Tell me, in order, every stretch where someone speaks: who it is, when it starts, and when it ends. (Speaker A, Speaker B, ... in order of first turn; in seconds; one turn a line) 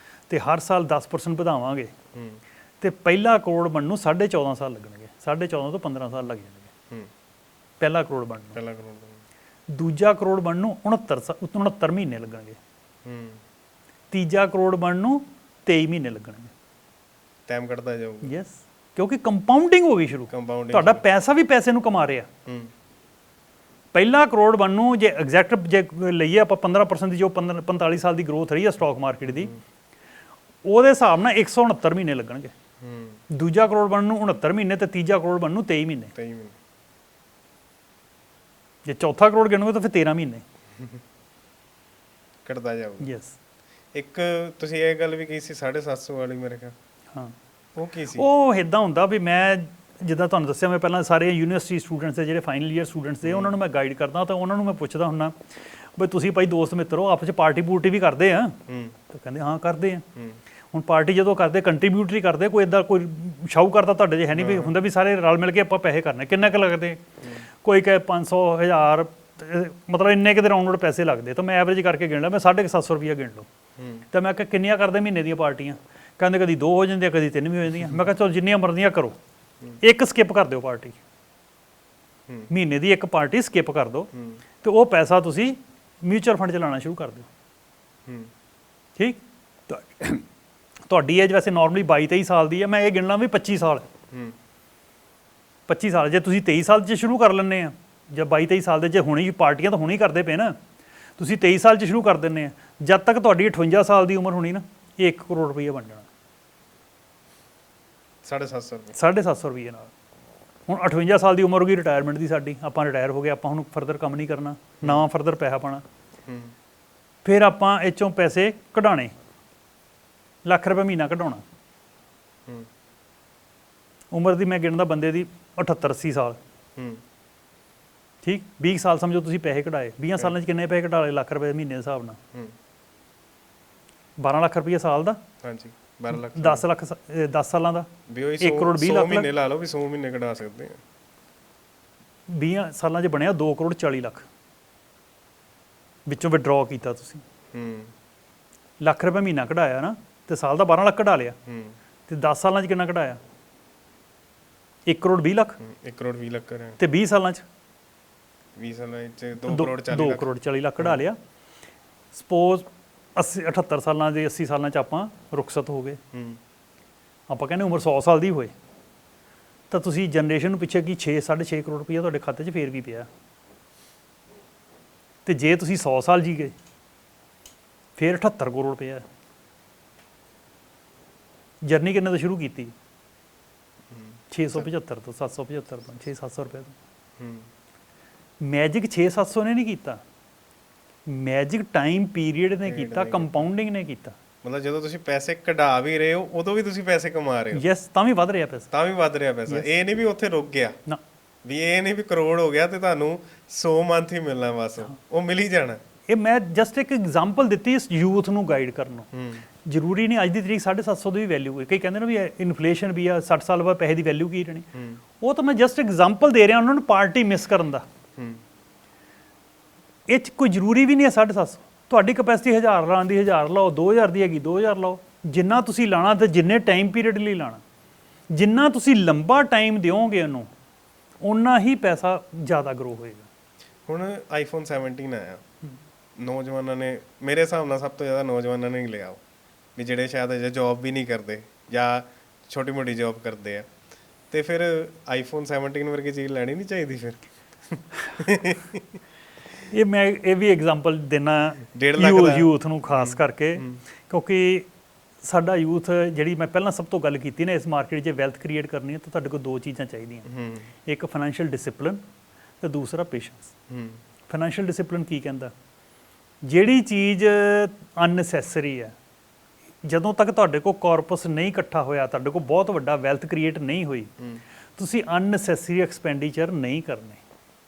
Speaker A: 0.3-1.9
Speaker B: 2.1-2.4
Speaker A: 2.8-6.7
Speaker A: 7.8-8.6
Speaker B: 8.5-9.2
Speaker A: 9.7-12.6
Speaker B: 13.1-13.4
Speaker A: 14.1-16.5
Speaker B: 17.5-18.3
Speaker A: 18.2-22.3
Speaker B: 20.3-21.0
Speaker A: 23.9-29.5
Speaker A: 30.6-32.5
Speaker B: 32.8-33.2
Speaker A: 33.3-36.1
Speaker B: 36.1-36.5
Speaker A: 38.8-40.4
Speaker B: 42.4-43.1
Speaker A: 43.0-43.4
Speaker B: 43.9-46.7
Speaker B: 47.8-48.3
Speaker A: 48.1-58.6
Speaker B: 53.2-53.5
Speaker B: 58.7-59.0
Speaker A: 59.1-60.0
Speaker A: 60.7-67.0
Speaker B: 64.3-64.7
Speaker A: 67.6-73.5
Speaker B: 73.8-74.0
Speaker A: 74.1-79.2
Speaker A: 79.8-81.0
Speaker A: 82.5-84.1
Speaker B: 84.1-84.4
Speaker A: 84.6-87.3
Speaker A: 89.0-90.2
Speaker A: 90.9-93.8
Speaker A: 95.7-100.5
Speaker A: 101.2-106.1
Speaker B: 108.2-109.0
Speaker A: 108.9-109.9
Speaker A: 110.7-115.8
Speaker B: 116.3-116.5
Speaker A: 117.2-119.1
Speaker A: 120.4-121.4
Speaker A: 124.1-126.4
Speaker B: 126.8-127.0
Speaker A: 128.2-132.2
Speaker A: 134.2-135.2
Speaker B: 135.4-136.6
Speaker A: 136.1-137.9
Speaker B: 138.1-140.8
Speaker A: 138.4-139.3
Speaker A: 142.3-144.3
Speaker A: 146.1-147.2
Speaker B: 147.5-147.9
Speaker A: 148.8-151.3
Speaker B: 151.5-151.7
Speaker A: 152.1-153.2
Speaker A: 154.9-155.6
Speaker B: 155.6-156.8
Speaker A: 156.8-157.4
Speaker B: 158.6-161.0
Speaker A: 159.4-161.2
Speaker A: 162.1-166.0
Speaker B: 166.1-166.4
Speaker A: 167.3-168.5
Speaker A: 169.7-173.1
Speaker A: 175.2-176.5
Speaker A: 178.0-179.1
Speaker A: 181.6-182.7
Speaker B: 183.9-184.7
Speaker A: 184.3-186.8
Speaker B: 187.2-187.5
Speaker A: 188.4-190.0
Speaker A: 191.1-194.2
Speaker B: 192.7-193.5
Speaker B: 194.4-197.7
Speaker A: 197.5-198.7
Speaker B: 198.7-200.8
Speaker B: 201.4-205.8
Speaker A: 206.1-209.1
Speaker B: 209.1-209.4
Speaker A: 209.6-214.7
Speaker B: 214.7-215.0
Speaker A: 215.2-217.8
Speaker A: 220.1-227.6
Speaker A: 228.3-230.5
Speaker A: 231.2-233.3
Speaker B: 233.9-235.4
Speaker B: 236.2-239.2
Speaker B: 239.8-243.7
Speaker B: 244.3-248.8
Speaker A: 249.7-254.7
Speaker B: 251.7-253.8
Speaker A: 255.2-260.3
Speaker B: 260.2-260.7
Speaker A: 260.9-262.0
Speaker A: 262.6-263.5
Speaker B: 263.7-264.0
Speaker A: 264.3-265.5
Speaker A: 266.4-268.9
Speaker A: 269.8-274.1
Speaker A: 274.8-277.2